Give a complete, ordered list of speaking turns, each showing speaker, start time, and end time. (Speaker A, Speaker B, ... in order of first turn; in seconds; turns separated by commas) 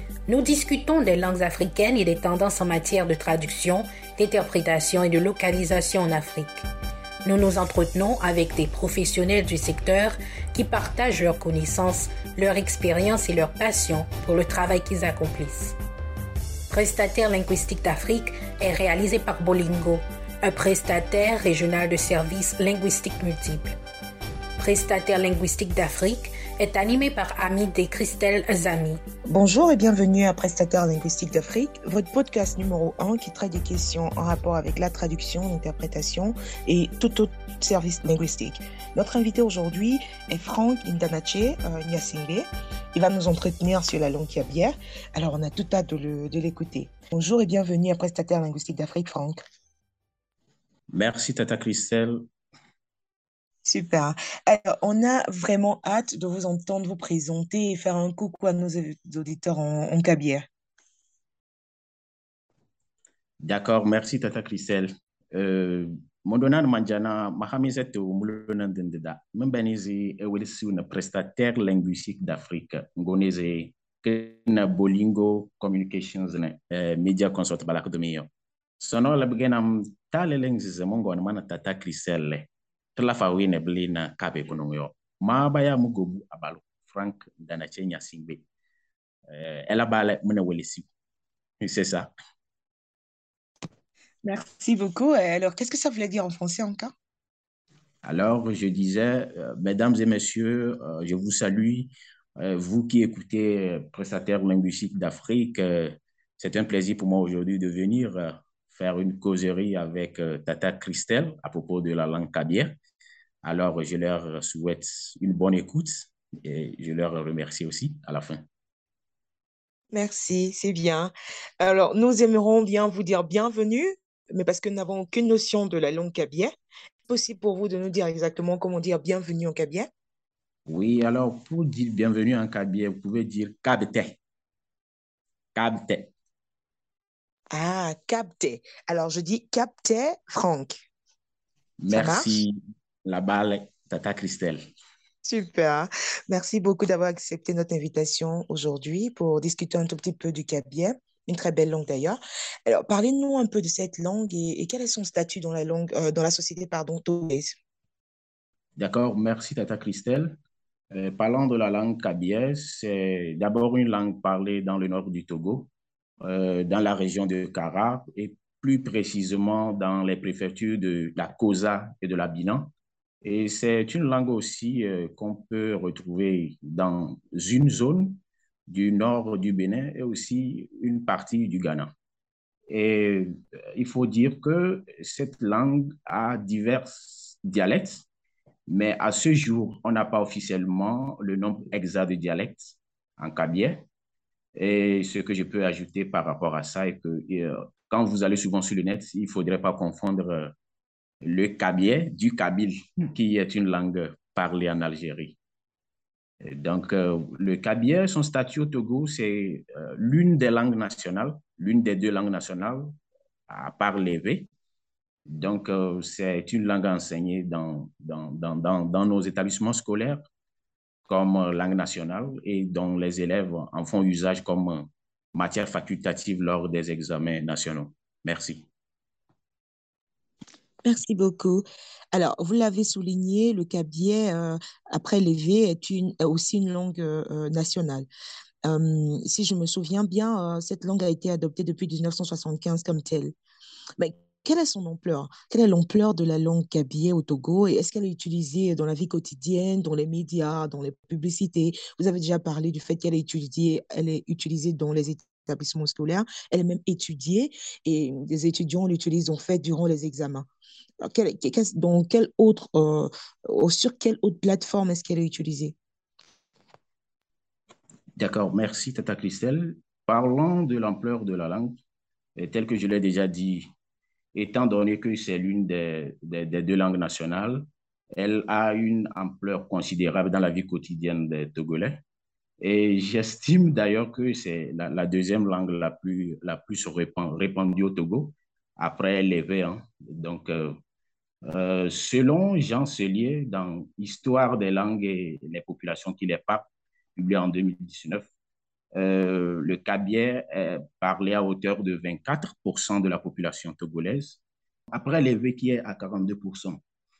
Speaker A: 0.3-6.6, Speaker A: 7.2-15.8, Speaker A: 16.7-23.8, Speaker A: 24.6-29.0, Speaker B: 29.3-49.4, Speaker C: 50.9-52.2, Speaker B: 53.6-60.4, Speaker C: 63.4-78.3, Speaker C: 78.8-88.4, Speaker C: 89.3-90.9, Speaker C: 91.6-92.1, Speaker B: 94.2-96.9, Speaker C: 98.0-112.8, Speaker C: 113.4-118.4, Speaker B: 119.9-126.5, Speaker B: 127.1-129.9, Speaker C: 130.7-134.2, Speaker C: 135.5-136.1, Speaker B: 137.5-140.8, Speaker C: 141.8-144.6, Speaker B: 141.9-142.4, Speaker B: 145.2-157.5, Speaker C: 158.8-160.4, Speaker C: 160.9-165.7, Speaker C: 166.2-172.7, Speaker C: 173.2-181.9, Speaker C: 182.7-188.1, Speaker C: 188.7-193.8, Speaker C: 194.6-200.5, Speaker C: 201.2-205.4, Speaker C: 206.4-212.9, Speaker C: 213.5-214.5, Speaker C: 215.2-220.2, Speaker C: 221.1-228.7, Speaker B: 230.8-238.1, Speaker B: 238.6-243.3, Speaker B: 244.0-260.4, Speaker B: 261.0-265.8, Speaker C: 268.2-271.8, Speaker C: 272.4-273.7, Speaker C: 274.3-282.0, Speaker C: 282.6-290.8, Speaker C: 291.4-298.3, Speaker C: 298.9-304.4, Speaker C: 304.9-306.8